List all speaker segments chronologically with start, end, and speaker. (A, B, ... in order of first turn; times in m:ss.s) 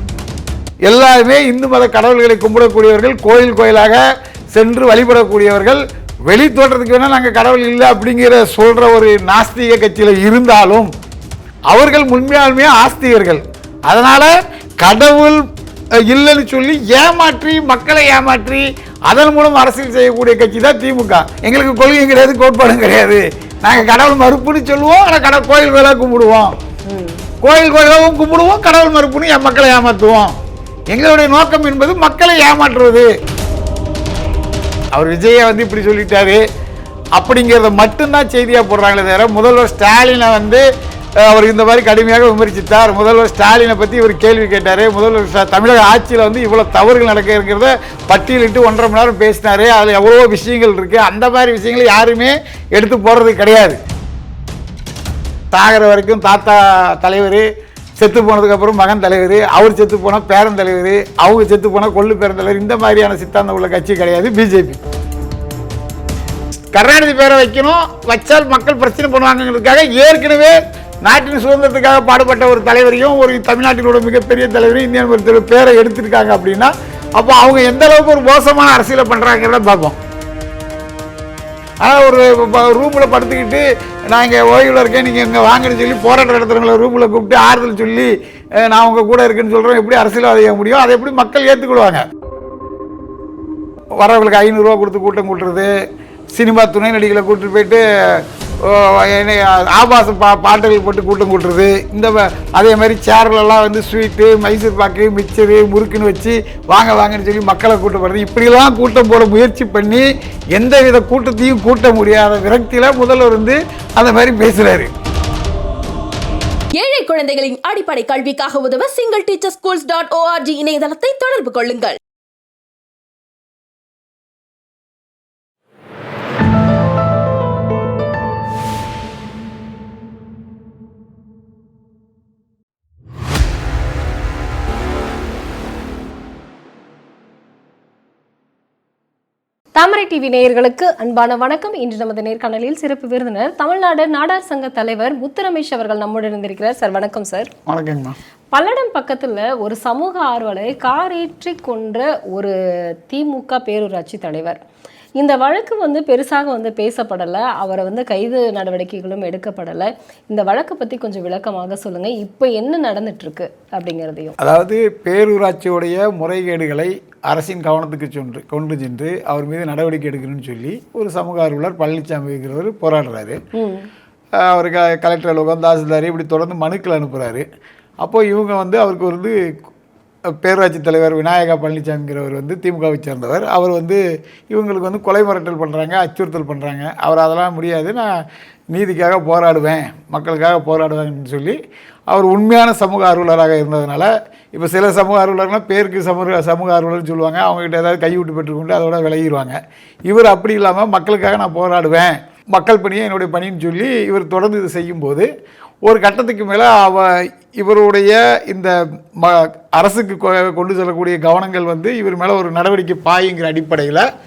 0:00.9-0:04.0 A
0:04.5-0:10.9 A
0:11.7-0:15.4 A
0:16.1-0:26.5 A
0:26.9-0:27.2 B
0:27.4-0:30.3 A
0:30.9-0:33.1 A
0:34.9-0:36.4 A
0:37.2-0:40.6 A
0:41.2-0:53.8 A
0:55.5-0:57.5 A
0:58.0-1:04.8 A
1:06.7-1:20.0 A
1:21.8-1:32.0 A
1:34.0-1:35.7 A
1:36.3-1:54.9 A
1:56.7-2:02.0 C
2:19.8-2:27.5 B
2:27.7-2:28.2 A
2:28.5-2:34.6 B
2:35.2-2:44.4 B
2:44.4-2:53.4 A
2:53.6-2:53.9 B
2:54.4-2:57.4 A
2:58.0-2:59.4 A
3:00.4-3:08.1 A
3:08.7-3:19.6 A
3:20.1-3:25.3 A
3:25.9-3:34.1 A